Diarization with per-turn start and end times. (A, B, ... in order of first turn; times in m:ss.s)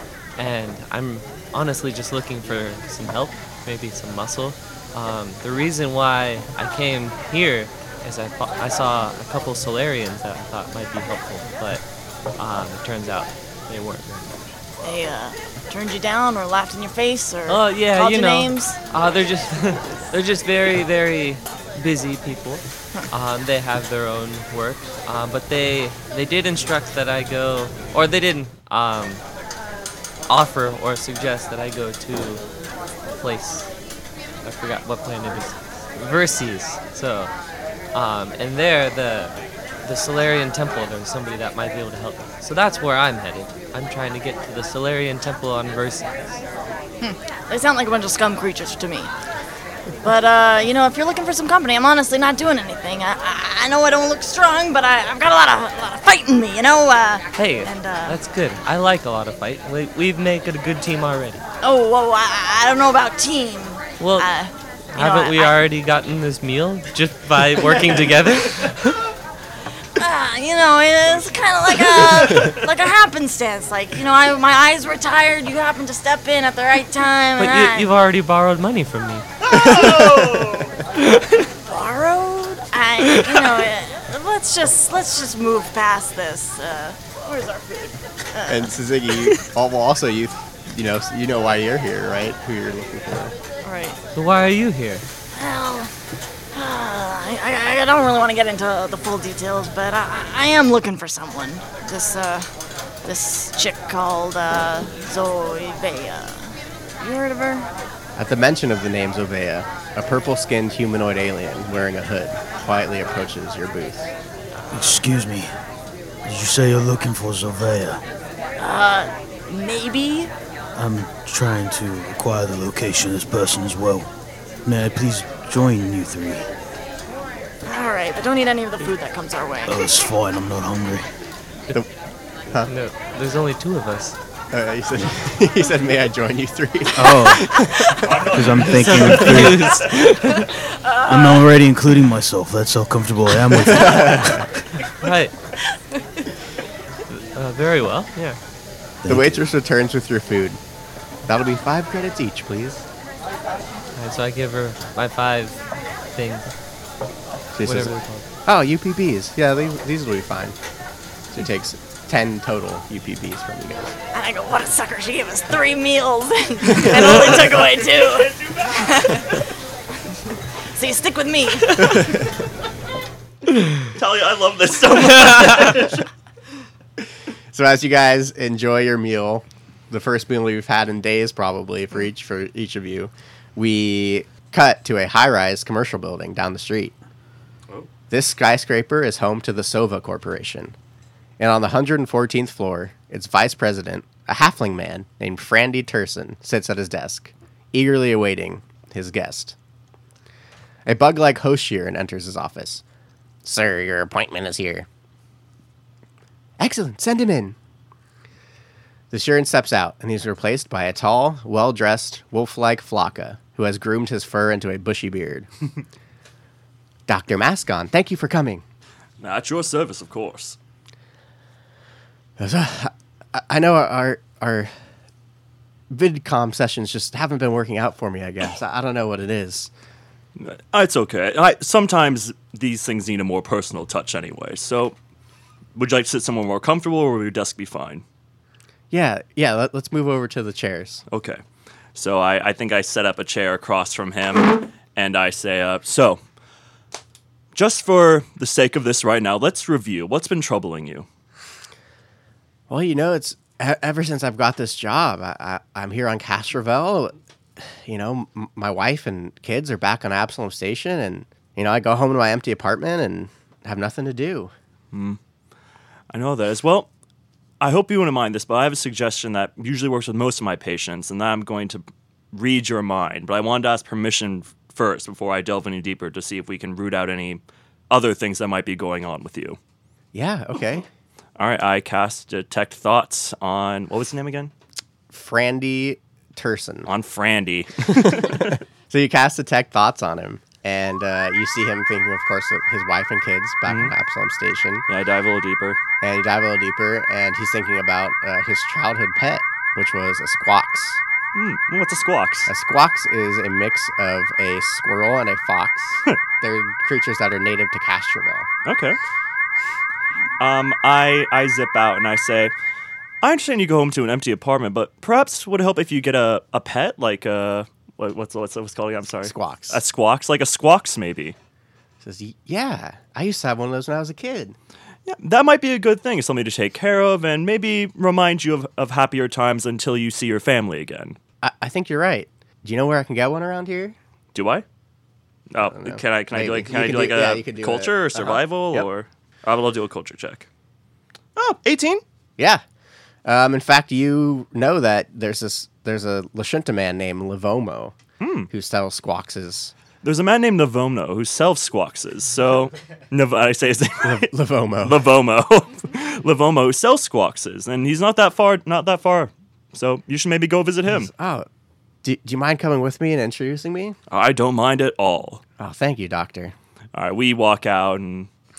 0:00.4-0:11.8 A
0:12.4-0:14.4 A
0:14.8-0:18.8 B
0:17.5-0:29.2 A
0:30.3-0:32.4 A
0:33.2-0:33.7 A
0:34.4-0:37.3 A
0:37.9-0:46.4 A
0:47.0-0:49.1 B
0:50.0-0:58.2 B
0:57.4-1:01.4 A
1:01.6-1:05.6 B
1:04.0-1:04.3 A
1:04.9-1:09.0 A
1:10.0-1:17.9 B
1:17.4-1:19.7 A
1:19.5-1:20.8 C
1:19.8-1:20.5 D
1:21.0-1:21.4 A
1:21.7-1:28.7 B
1:28.5-1:33.4 D
1:33.6-1:34.0 B
1:34.2-1:35.1 A
1:35.3-1:35.9 B
1:36.5-1:42.5 B
1:43.0-1:47.7 B
1:48.2-1:54.1 D
1:54.7-1:55.5 E
1:56.2-1:58.0 E
1:58.6-2:00.3 B
2:00.8-2:04.1 E
2:04.6-2:06.5 E
2:07.6-2:09.9 B
2:09.7-2:11.1 E
2:12.6-2:14.2 A
2:14.5-2:18.2 D
2:17.0-2:17.7 E
2:17.9-2:20.1 C
2:18.2-2:19.8 E
2:18.7-2:20.5 A
2:20.2-2:21.5 B
2:21.1-2:24.5 E
2:23.8-2:24.5 D
2:25.0-2:25.4 A
2:27.1-2:28.4 A
2:29.0-2:29.4 E
2:29.1-2:30.6 D
2:31.3-2:32.8 D
2:34.0-2:35.6 A
2:36.1-2:36.5 A
2:37.5-2:38.0 D
2:37.6-2:38.3 A
2:38.5-2:40.6 D
2:41.3-2:44.0 D
2:44.1-2:49.5 B
2:47.5-2:49.3 C
2:50.3-2:52.2 B
2:53.9-2:56.1 C
2:55.2-2:55.7 A
2:57.0-3:07.0 D
3:08.1-3:10.8 D
3:11.4-3:19.6 D
3:20.9-3:22.8 D
3:23.4-3:24.9 D
3:26.6-3:27.6 D
3:29.1-3:35.5 D
3:37.1-3:38.6 D
3:39.2-3:40.6 C
3:42.4-3:44.7 D
3:45.9-3:49.7 D
3:50.4-3:55.0 C
3:55.8-3:58.0 C
3:58.9-4:01.0 D
4:01.1-4:01.4 C
4:02.0-4:06.2 C
4:07.5-4:11.1 C
4:12.7-4:24.5 D
4:24.9-4:25.2 C
4:26.1-4:26.9 C
4:27.6-4:39.6 C
4:40.1-4:40.9 D
4:41.4-4:44.5 C
4:45.1-4:46.9 D
4:46.9-4:48.6 C
4:47.9-4:54.8 D
4:53.7-4:53.9 C
4:54.9-4:55.8 C
4:56.0-5:01.0 D
5:01.3-5:02.5 C
5:02.5-5:08.5 D
5:08.6-5:09.0 C
5:10.4-5:12.5 C
5:13.2-5:21.4 C
5:19.2-5:19.8 D
5:22.0-5:24.6 D
5:25.1-5:31.2 C
5:31.4-5:34.0 D
5:34.3-5:34.6 C
5:35.5-5:40.5 C
5:35.6-5:38.9 D
5:41.4-5:42.0 C
5:43.2-5:48.0 D
5:48.2-5:48.5 C
5:48.5-5:49.7 D
5:50.0-5:54.3 C
5:54.0-5:55.0 D
5:54.8-6:01.1 C
6:00.9-6:01.5 D
6:02.0-6:04.0 D
6:04.1-6:05.4 C
6:05.6-6:06.6 D
6:07.0-6:08.3 C